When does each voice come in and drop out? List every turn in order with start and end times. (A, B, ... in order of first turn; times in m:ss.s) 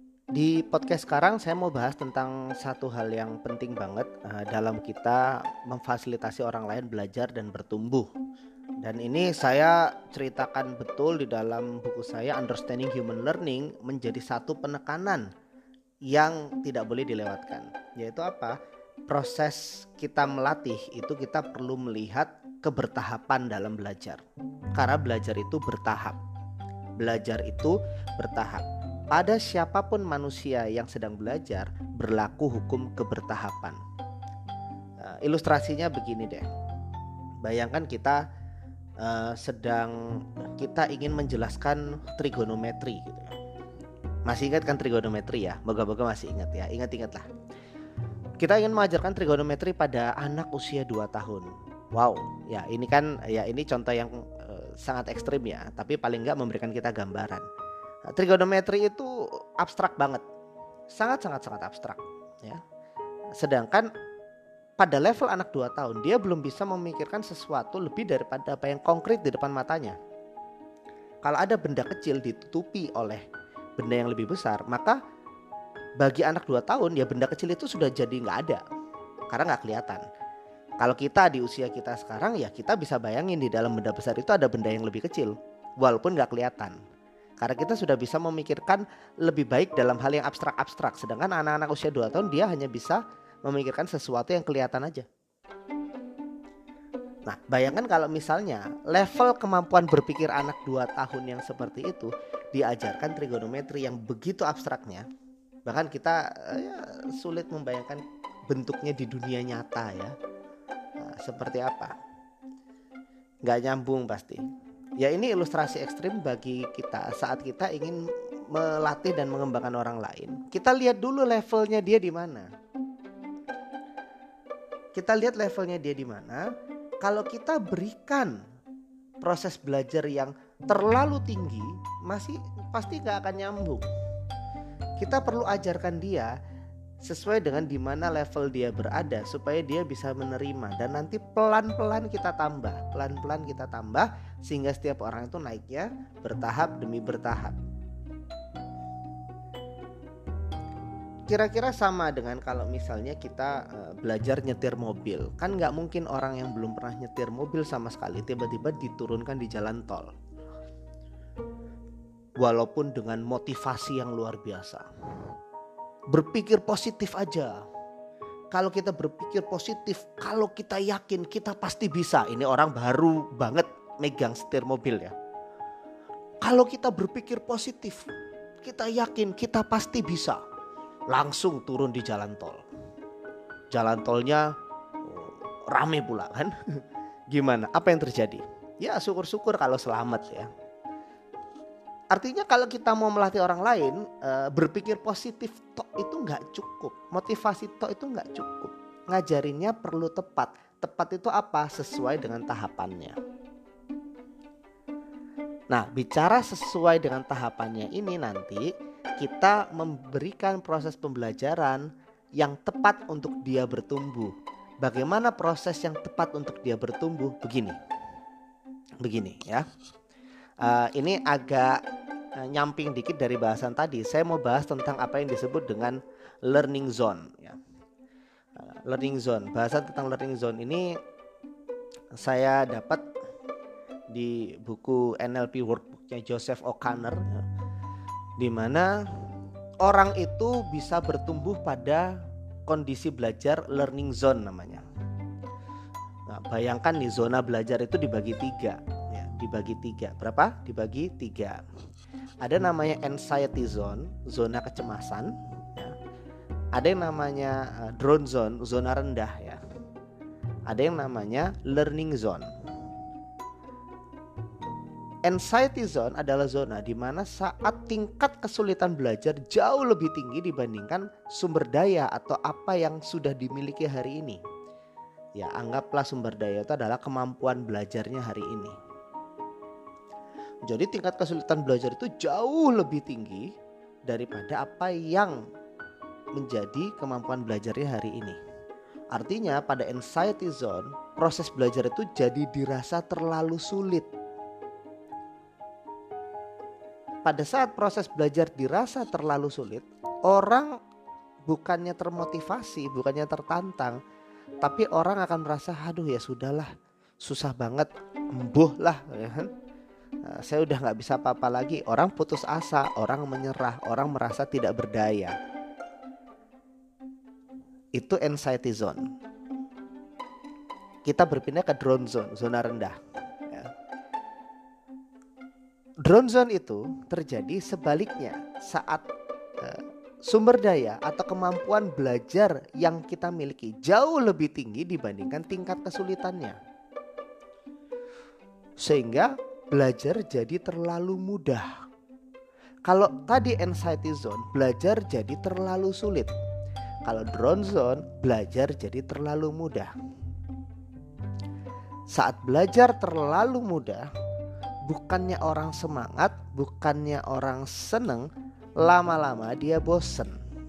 0:00.3-0:08.1 A
0:08.8-0:15.3 A
0:16.1-0:18.6 A
0:19.1-0:24.2 A
0:24.8-0:26.2 A
0:27.0-0:33.8 A
0:35.0-0:36.4 A
0:37.4-0:38.2 A
0:39.0-0:43.4 A
0:44.3-0:47.3 A
0:48.4-0:57.4 A
0:58.1-1:00.2 A
1:00.9-1:02.6 A
1:03.4-1:03.9 A
1:04.8-1:10.0 A
1:11.2-1:13.2 A
1:13.8-1:15.0 A
1:16.0-1:18.6 A
1:19.3-1:20.0 A
1:20.8-1:26.8 A
1:27.4-1:35.1 A
1:37.3-1:45.0 A
1:45.6-1:50.1 A
1:51.0-1:51.9 A
1:53.4-1:54.4 A
1:55.0-1:58.0 A
1:58.5-2:02.5 A
2:04.9-2:06.5 A
2:07.0-2:08.4 A
2:09.2-2:13.9 A
2:15.0-2:16.3 A
2:17.0-2:27.6 A
2:31.3-2:40.1 A
2:42.4-2:44.8 A
2:46.1-2:47.6 A
2:48.5-2:55.1 A
2:56.4-2:58.1 A
2:58.6-3:00.4 A
3:01.1-3:02.6 A
3:03.7-3:06.5 A
3:07.3-3:10.5 A
3:12.1-3:23.2 A
3:25.7-3:37.8 A
3:39.0-3:39.6 A
3:40.6-3:41.8 A
3:42.4-3:47.6 A
3:48.6-3:50.9 A
3:52.2-3:53.0 A
3:54.1-3:57.4 A
3:58.4-3:59.0 A
3:59.8-4:02.1 A
4:02.7-4:04.8 A
4:06.3-4:11.6 A
4:12.4-4:15.9 A
4:16.7-4:19.6 A
4:20.7-4:22.5 A
4:25.2-4:34.4 A
4:35.4-4:38.7 A
4:40.6-4:43.5 A
4:44.1-4:45.4 A
4:46.4-4:48.4 A
4:49.1-4:54.1 A
4:57.2-5:00.8 A
5:01.5-5:04.0 A
5:04.6-5:06.7 A
5:07.2-5:09.5 A
5:10.2-5:15.4 A
5:18.0-5:19.0 A
5:21.0-5:22.9 A
5:26.0-5:29.0 A
5:29.6-5:36.6 A
5:38.8-5:41.7 A
5:42.9-5:46.3 A
5:47.0-5:49.9 A
5:52.1-5:54.0 A
5:54.8-5:58.3 A
5:58.8-6:00.4 A